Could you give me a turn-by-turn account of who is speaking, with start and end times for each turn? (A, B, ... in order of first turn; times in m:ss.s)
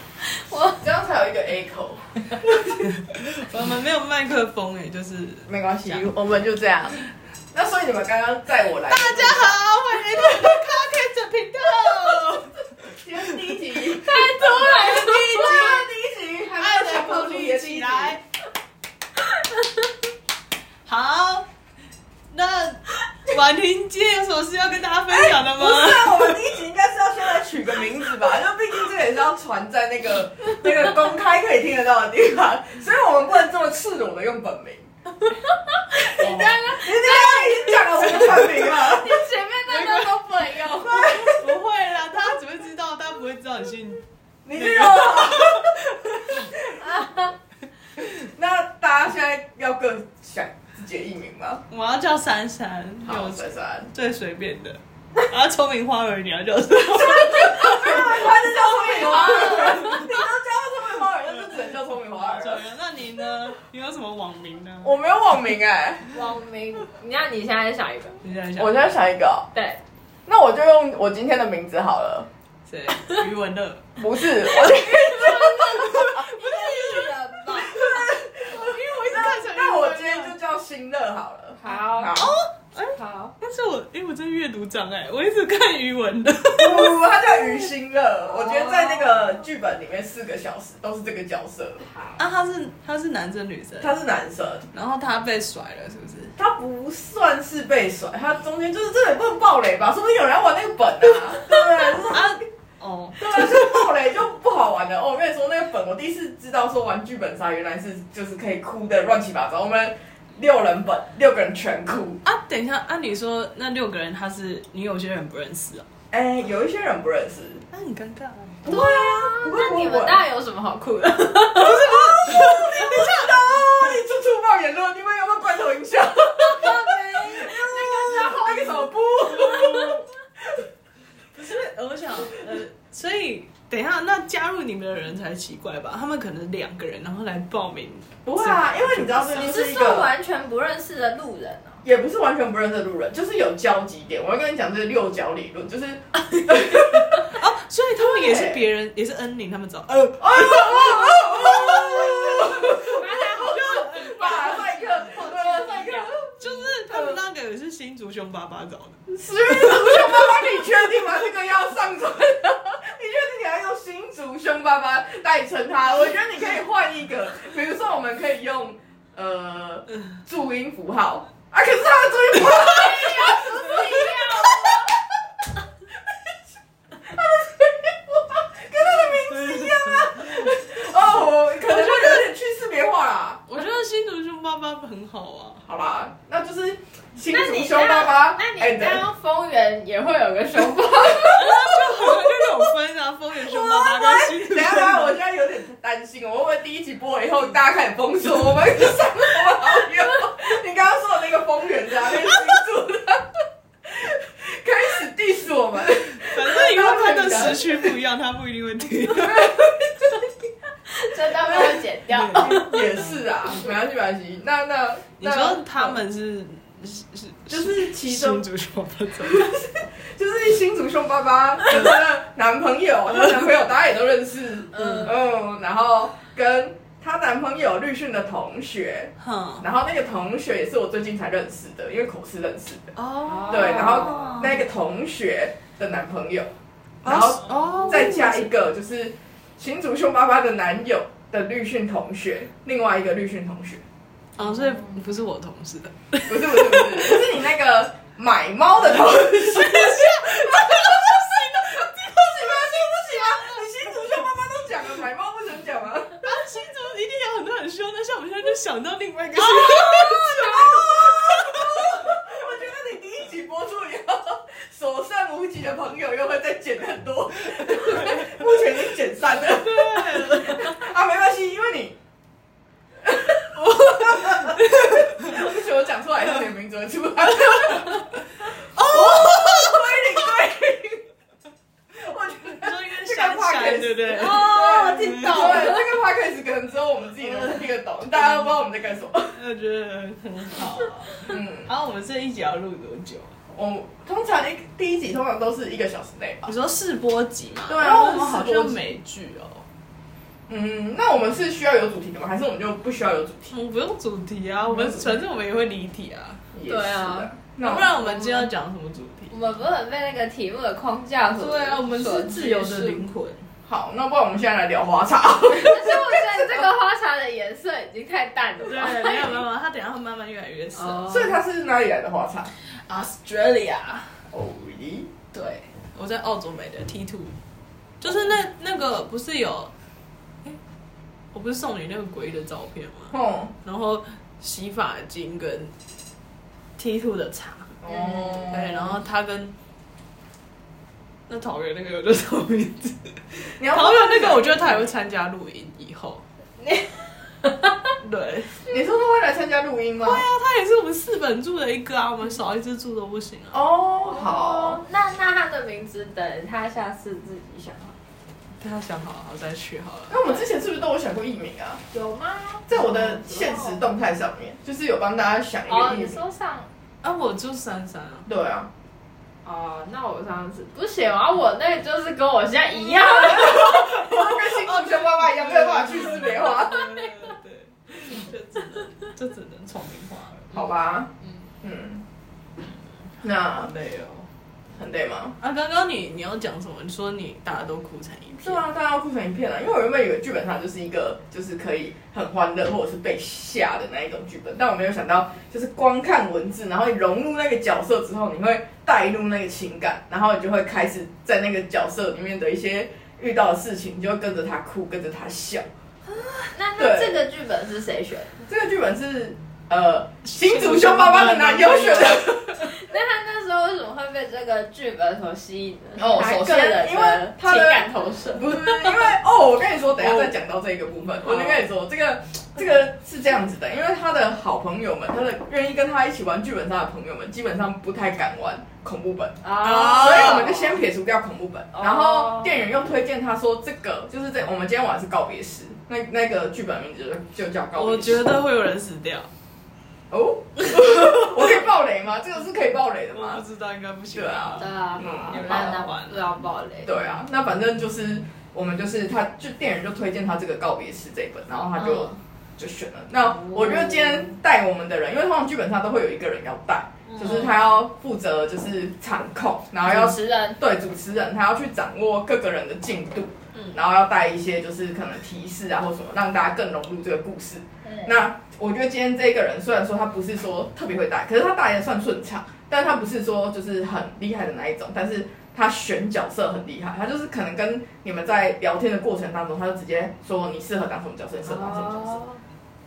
0:00.2-0:00.8 A
0:00.8-0:02.4 B
0:02.7-0:06.1 C
0:05.5-0:10.6 B
0:08.9-0:12.6 C
0:12.8-0:18.2 B
0:14.0-0:15.8 A
0:15.2-0:15.8 C
0:16.6-0:18.2 C
0:20.8-0:21.5 C
0:22.3-0:26.4 C
0:25.1-0:34.9 B
0:35.9-0:40.8 A
0:36.2-0:41.5 B
0:36.2-0:36.5 C
0:41.2-0:44.0 C
0:44.4-0:47.2 B
0:44.5-0:45.8 C
0:46.8-0:47.3 A
0:48.0-0:51.6 B
0:51.7-1:00.1 C
0:53.0-0:53.9 B
0:56.8-1:02.6 B
0:59.1-0:59.8 A
1:01.3-1:05.0 C
1:04.8-1:06.1 B
1:06.1-1:08.2 A
1:08.2-1:08.8 C
1:08.6-1:09.5 B
1:09.5-1:09.8 A
1:10.2-1:12.3 B
1:12.7-1:13.8 C
1:14.0-1:22.4 B
1:14.7-1:17.9 A
1:15.8-1:16.2 C
1:17.5-1:20.4 C
1:21.6-1:22.2 A
1:22.1-1:27.0 C
1:22.8-1:23.3 A
1:26.5-1:31.8 B
1:28.4-1:29.0 A
1:31.9-1:32.2 A
1:32.2-1:33.9 C
1:33.8-1:34.7 B
1:34.7-1:36.3 C
1:36.4-1:42.4 B
1:42.0-1:43.9 C
1:43.2-1:52.2 B
1:52.2-1:55.9 C
1:56.1-1:57.6 B
1:57.7-1:58.7 C
1:58.6-2:00.2 B
1:58.7-2:02.0 A
2:01.5-2:03.3 C
2:02.2-2:10.0 B
2:06.4-2:08.8 A
2:09.2-2:10.0 C
2:11.3-2:19.5 C
2:18.2-2:20.1 B
2:19.3-2:21.8 A
2:21.8-2:27.3 B
2:27.2-2:34.8 C
2:28.0-2:28.6 B
2:30.2-2:37.2 B
2:32.8-2:36.2 A
2:36.4-2:40.3 C
2:39.1-2:55.0 B
2:52.7-2:54.5 A
2:57.0-3:03.4 B
2:59.1-3:00.1 C
3:03.5-3:05.6 C
3:05.6-3:09.0 B
3:07.3-3:12.1 A
3:10.6-3:12.3 B
3:11.2-3:15.1 C
3:13.4-3:23.3 B
3:23.8-3:28.0 B
3:26.1-3:29.5 C
3:29.1-3:30.2 B
3:30.9-3:32.8 A
3:31.3-3:36.0 B
3:32.1-3:33.2 C
3:35.2-3:39.5 C
3:37.5-3:38.4 B
3:39.2-3:52.9 B
3:41.6-3:41.9 C
3:43.2-3:43.5 C
3:44.7-3:45.1 A
3:44.8-3:45.1 C
3:49.2-3:49.6 C
3:53.0-3:54.5 C
3:53.2-3:54.4 A
3:53.5-3:56.5 B
3:57.0-3:58.5 C
3:57.0-4:03.8 B
4:04.4-4:07.3 C
4:06.3-4:16.3 B
4:09.4-4:13.7 C
4:16.2-4:22.0 C
4:19.7-4:20.7 A
4:19.8-4:32.0 B
4:27.8-4:28.4 C
4:29.3-4:30.8 C
4:33.0-4:41.0 B
4:33.6-4:35.4 C
4:38.7-4:40.1 C
4:41.9-4:49.4 B
4:42.4-4:45.8 C
4:44.2-4:45.8 A
4:47.3-4:47.6 C
4:49.3-4:53.4 C
4:51.2-4:51.7 B
4:53.5-4:56.5 B
4:56.4-4:59.6 C
4:57.7-4:58.8 B
5:00.5-5:03.5 B
5:03.5-5:06.4 C
5:04.7-5:05.1 B
5:06.5-5:08.0 B
5:06.7-5:07.3 A
5:07.6-5:09.3 C
5:08.0-5:08.5 A
5:09.3-5:13.1 A
5:11.3-5:13.4 C
5:13.6-5:16.7 B
5:15.5-5:19.4 A
5:18.6-5:21.1 C
5:20.8-5:21.4 A
5:21.0-5:22.5 B
5:22.6-5:24.2 C
5:24.3-5:25.1 B
5:25.3-5:27.3 C
5:28.0-5:29.7 C
5:31.3-5:33.1 C
5:33.1-5:33.5 B
5:33.6-5:35.7 C
5:36.8-5:37.8 C
5:37.8-5:39.0 B
5:37.9-5:38.1 A
5:38.3-5:39.5 C
5:41.3-5:46.2 C
5:43.6-5:44.9 B
5:46.6-5:47.9 A
5:48.0-5:48.6 C
5:48.7-5:50.2 B
5:50.0-5:53.6 C
5:53.5-5:54.8 B
5:54.1-5:57.9 A
5:58.6-6:00.2 C
6:00.1-6:01.8 B
6:01.9-6:03.8 A
6:02.7-6:06.2 B
6:05.7-6:06.7 A
6:07.0-6:08.3 C
6:08.3-6:08.7 B
6:09.4-6:14.0 A
6:13.0-6:17.0 B
6:14.2-6:20.5 C
6:20.5-6:22.0 B
6:23.2-6:23.7 B
6:23.6-6:24.3 C
6:24.7-6:25.4 B
6:25.4-6:28.6 C
6:28.4-6:45.7 B
6:46.2-6:46.4 C
6:46.5-6:48.4 A
6:46.8-6:47.2 B
6:48.4-6:52.7 B
6:50.3-6:52.4 C
6:52.6-6:58.9 A
6:56.0-7:18.2 B
7:00.0-7:00.3 C
7:09.4-7:10.8 A
7:09.6-7:10.4 C
7:11.7-7:12.5 A
7:17.7-7:19.3 C
7:20.1-7:23.4 B
7:23.1-7:24.7 C
7:24.1-7:25.8 B
7:24.6-7:27.1 A
7:25.3-7:26.3 C
7:26.8-8:02.2 B
7:31.8-7:32.2 A
7:33.3-7:34.3 A
7:37.1-7:37.5 C
7:39.8-7:40.6 A
7:47.8-7:48.1 A
8:01.4-8:02.4 A